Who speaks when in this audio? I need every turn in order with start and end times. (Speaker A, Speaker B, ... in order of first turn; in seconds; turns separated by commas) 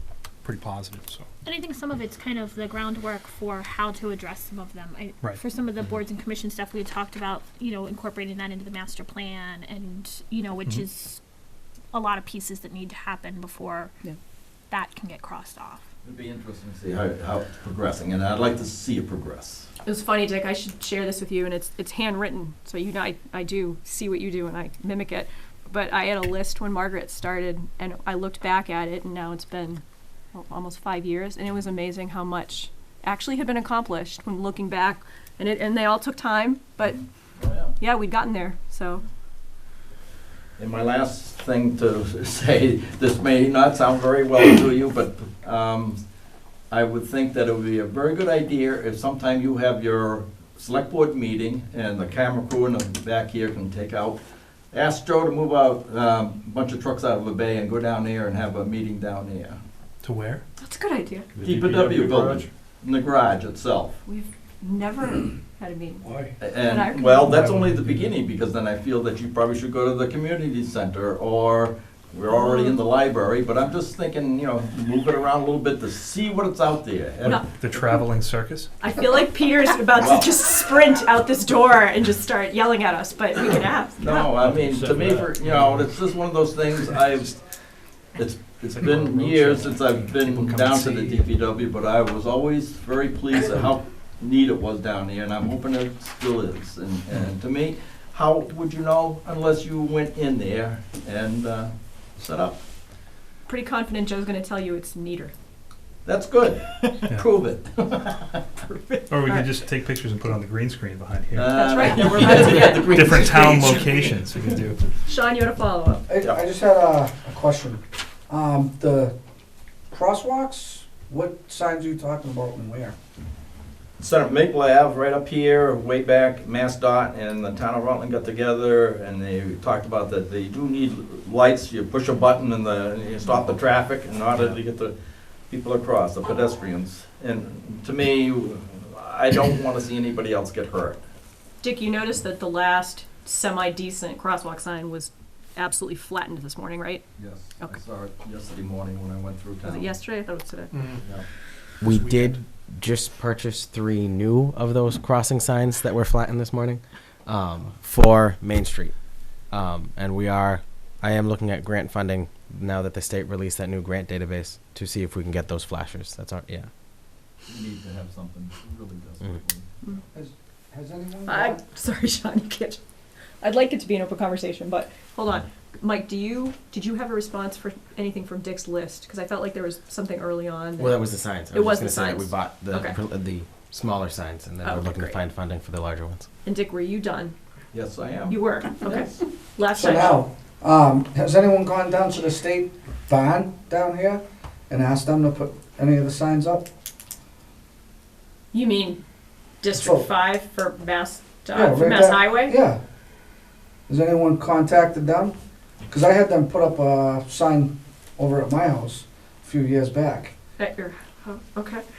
Speaker A: 0.4-1.3, Speaker B: 1.4-11.2, Speaker B: 11.9-13.9, Speaker B: 14.7-15.8, Speaker C: 16.0-19.7, Speaker D: 19.8-37.0, Speaker C: 37.4-37.7, Speaker D: 37.8-39.0, Speaker C: 40.6-46.0, Speaker C: 46.7-54.2, Speaker C: 54.7-59.6, Speaker A: 60.0-60.4, Speaker D: 60.6-61.3, Speaker A: 61.4-62.5, Speaker C: 61.4-64.0, Speaker D: 64.0-66.0, Speaker A: 66.0-66.3, Speaker C: 66.4-77.4, Speaker D: 66.6-67.4, Speaker A: 67.3-68.1, Speaker D: 72.3-72.8, Speaker D: 77.2-78.0, Speaker A: 77.2-78.7, Speaker D: 78.8-84.3, Speaker C: 79.9-80.3, Speaker C: 84.0-87.4, Speaker A: 84.6-85.8, Speaker A: 87.1-87.3, Speaker C: 88.2-102.6, Speaker A: 88.8-91.2, Speaker D: 103.5-105.3, Speaker C: 106.0-108.4, Speaker D: 108.7-109.5, Speaker A: 109.1-114.8, Speaker C: 111.3-113.8, Speaker D: 111.5-114.1, Speaker D: 115.0-116.0, Speaker E: 116.1-119.1, Speaker E: 119.9-122.9, Speaker C: 124.0-134.9, Speaker C: 135.5-141.0, Speaker D: 141.6-147.0, Speaker C: 147.2-149.9, Speaker D: 149.6-150.8, Speaker A: 150.7-151.0, Speaker C: 151.0-151.3, Speaker F: 151.8-166.7, Speaker A: 151.8-152.3, Speaker C: 167.4-169.7, Speaker E: 170.1-171.6, Speaker D: 171.2-172.8, Speaker D: 173.4-183.0, Speaker F: 180.8-186.3, Speaker D: 184.6-185.2, Speaker D: 186.4-187.3, Speaker C: 187.7-189.1, Speaker D: 188.3-190.2, Speaker E: 189.7-196.7, Speaker D: 198.5-199.0, Speaker D: 199.6-202.6, Speaker E: 199.7-200.0, Speaker E: 201.5-202.8, Speaker E: 203.9-205.3, Speaker E: 205.9-210.3, Speaker D: 210.6-211.8